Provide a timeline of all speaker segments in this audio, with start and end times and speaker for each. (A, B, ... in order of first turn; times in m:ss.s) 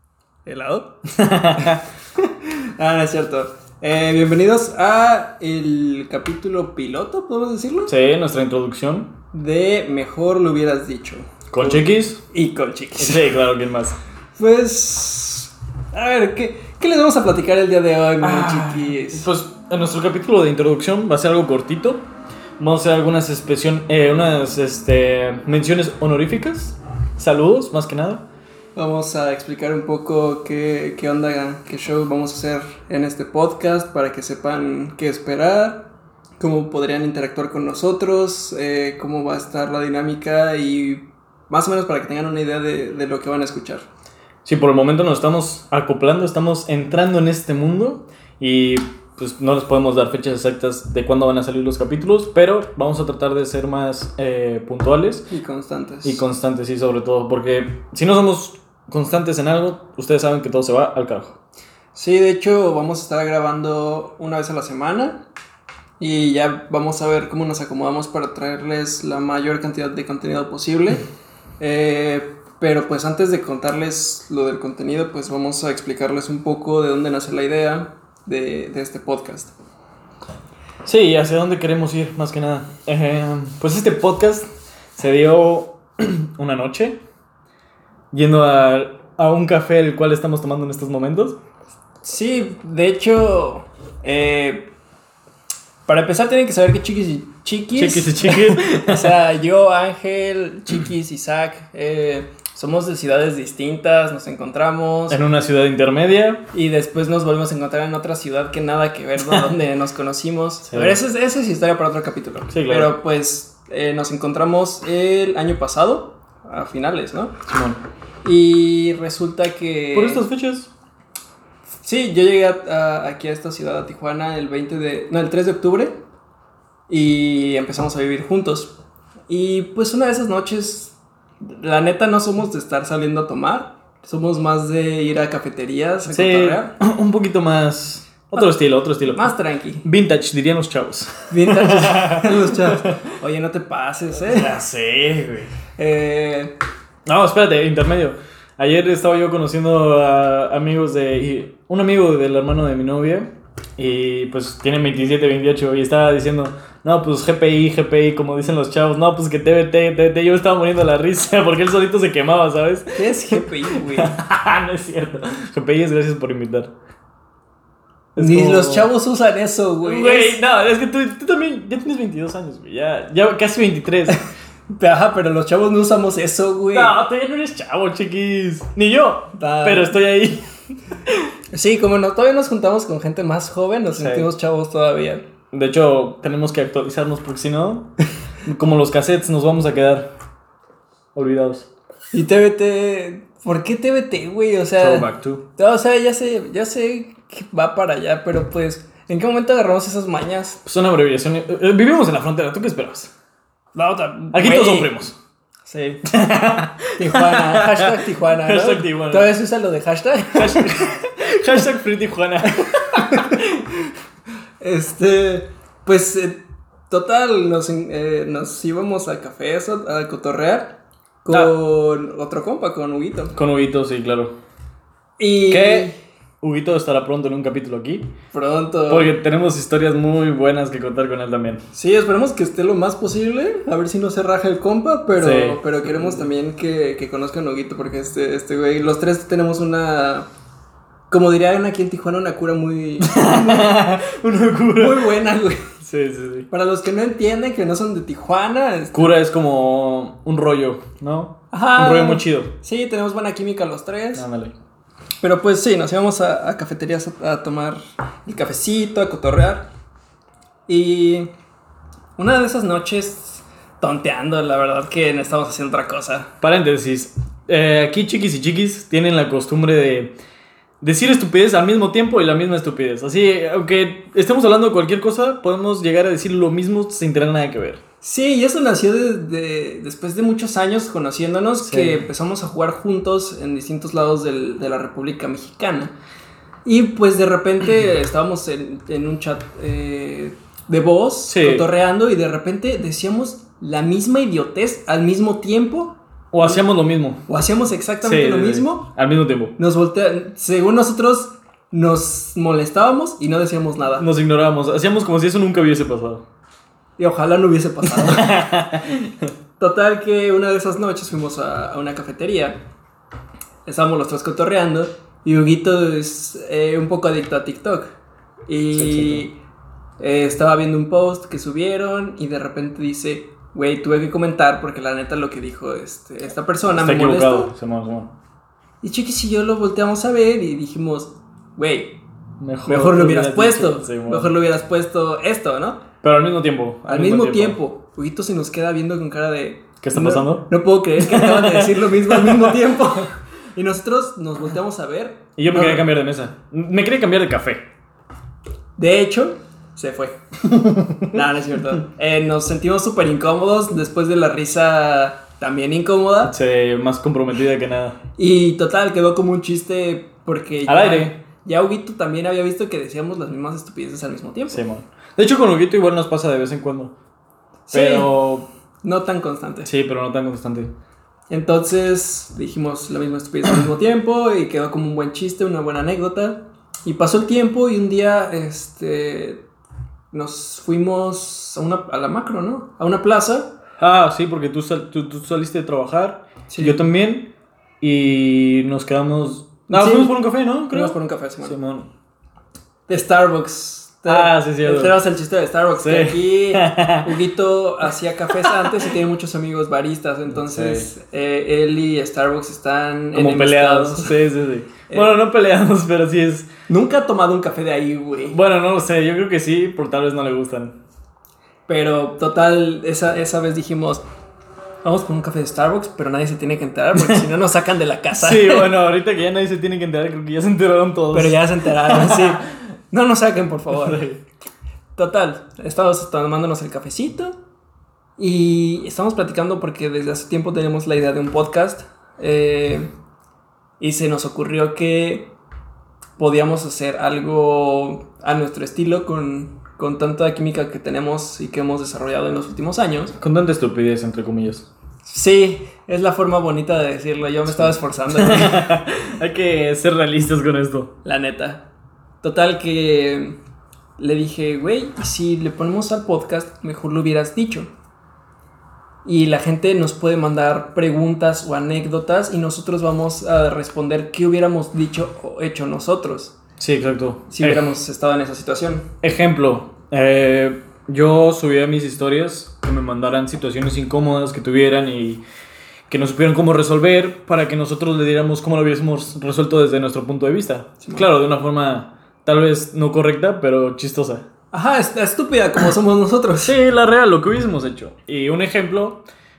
0:00.5-0:00.9 A
0:01.1-0:01.8 B
0:01.5-0:07.9 A
0:07.9-0:09.1 B
0:09.3-0:13.3 A
0:11.5-0:12.2 B
0:13.0-0:14.0 B
0:14.4-0:19.3 A
0:18.2-0:22.0 B
0:22.6-0:28.2 B
0:28.8-0:35.9 A
0:36.4-0:43.8 A
0:44.4-0:55.3 B
0:55.3-0:56.2 A
0:56.0-1:01.4 B
1:01.9-1:05.2 A
1:06.0-1:11.0 A
1:11.6-1:19.5 A
1:20.8-1:27.0 B
1:28.1-1:31.4 B
1:32.0-1:34.7 A
1:35.9-1:45.2 A
1:37.8-1:39.2 B
1:45.1-1:46.4 B
1:46.5-1:57.4 A
1:50.7-1:51.0 B
1:52.5-1:52.9 B
1:57.5-1:57.8 B
1:58.2-2:00.2 A
1:59.9-2:00.7 B
2:01.8-2:06.0 A
2:06.9-2:08.7 A
2:09.3-2:16.7 A
2:16.1-2:19.3 B
2:19.1-2:19.8 A
2:19.8-2:23.0 B
2:21.3-2:24.5 A
2:24.2-2:25.5 B
2:25.8-2:26.5 A
2:27.1-2:46.7 B
2:42.9-2:44.2 A
2:48.2-2:48.9 B
2:48.2-2:50.4 A
2:49.8-2:54.2 B
2:54.7-2:57.0 A
2:56.7-3:00.4 B
2:59.4-2:59.9 A
3:01.5-3:05.2 A
3:03.9-3:04.3 B
3:05.5-3:07.9 B
3:08.4-3:10.1 B
3:11.2-3:11.7 B
3:12.1-3:20.6 A
3:14.8-3:15.4 B
3:20.6-3:23.1 B
3:23.8-3:24.9 A
3:24.3-3:25.2 B
3:25.7-3:26.1 A
3:26.1-3:29.3 B
3:27.0-3:30.7 A
3:30.3-3:33.4 B
3:32.8-3:33.9 A
3:34.6-3:43.4 A
3:43.4-3:44.3 B
3:45.2-3:45.9 A
3:45.5-3:45.9 B
3:46.4-3:48.1 B
3:48.3-3:49.1 A
3:48.9-3:51.6 B
3:51.7-4:00.3 A
3:55.2-3:56.3 B
4:01.1-4:03.8 A
4:03.0-4:05.1 B
4:04.8-4:05.7 A
4:05.8-4:06.5 B
4:06.5-4:09.1 A
4:08.9-4:12.5 B
4:11.5-4:14.2 A
4:14.2-4:14.5 B
4:15.2-4:19.7 A
4:20.7-4:21.3 A
4:22.2-4:26.3 A
4:26.4-4:30.1 B
4:30.8-4:37.8 B
4:38.0-4:45.9 A
4:41.6-4:42.0 B
4:46.6-4:56.6 A
4:51.3-4:51.7 B
4:56.3-4:57.2 B
4:57.3-4:58.9 A
4:58.0-4:59.5 B
4:59.6-5:04.1 A
5:04.0-5:06.2 B
5:07.0-5:08.3 A
5:07.8-5:09.3 B
5:09.6-5:12.6 A
5:13.7-5:17.9 A
5:18.5-5:19.4 A
5:18.7-5:19.2 B
5:20.0-5:27.5 A
5:26.8-5:28.1 B
5:28.8-5:32.0 A
5:32.4-5:34.3 B
5:32.7-5:35.8 A
5:36.0-5:37.6 B
5:36.9-5:45.8 A
5:39.8-5:40.5 B
5:41.0-5:42.6 B
5:45.4-5:47.6 B
5:48.8-5:50.2 A
5:50.5-5:51.2 B
5:51.0-5:56.3 A
5:56.3-5:58.0 B
5:58.2-6:04.6 A
6:00.7-6:01.2 B
6:04.5-6:06.9 B
6:07.7-6:08.1 A
6:07.7-6:08.5 B
6:08.8-6:09.7 A
6:09.6-6:10.7 B
6:11.3-6:19.4 A
6:20.1-6:23.5 A
6:23.8-6:27.3 B
6:26.5-6:26.9 A
6:27.8-6:31.9 B
6:29.7-6:31.6 A
6:32.9-6:44.2 A
6:34.1-6:35.0 B
6:35.8-6:37.1 B
6:38.3-6:38.9 B
6:40.3-6:40.9 B
6:43.1-6:46.5 B
6:44.9-6:45.2 A
6:46.7-6:48.4 A
6:48.3-6:50.8 B
6:51.7-6:54.0 A
6:54.8-6:58.7 A
6:58.1-7:02.4 B
7:01.1-7:04.0 A
7:03.7-7:04.2 B
7:05.0-7:07.4 A
7:08.2-7:12.9 A
7:13.8-7:15.3 A
7:16.2-7:23.2 A
7:23.2-7:24.7 B
7:25.1-7:28.7 A
7:28.2-7:30.9 B
7:31.0-7:31.6 A
7:32.2-7:33.4 A
7:34.0-7:37.7 A
7:39.0-7:46.3 A
7:46.6-7:47.6 B
7:47.3-7:48.9 A
7:49.0-7:55.2 B
7:55.9-8:04.3 B
8:00.8-8:01.1 A
8:04.5-8:06.5 A
8:06.4-8:09.0 B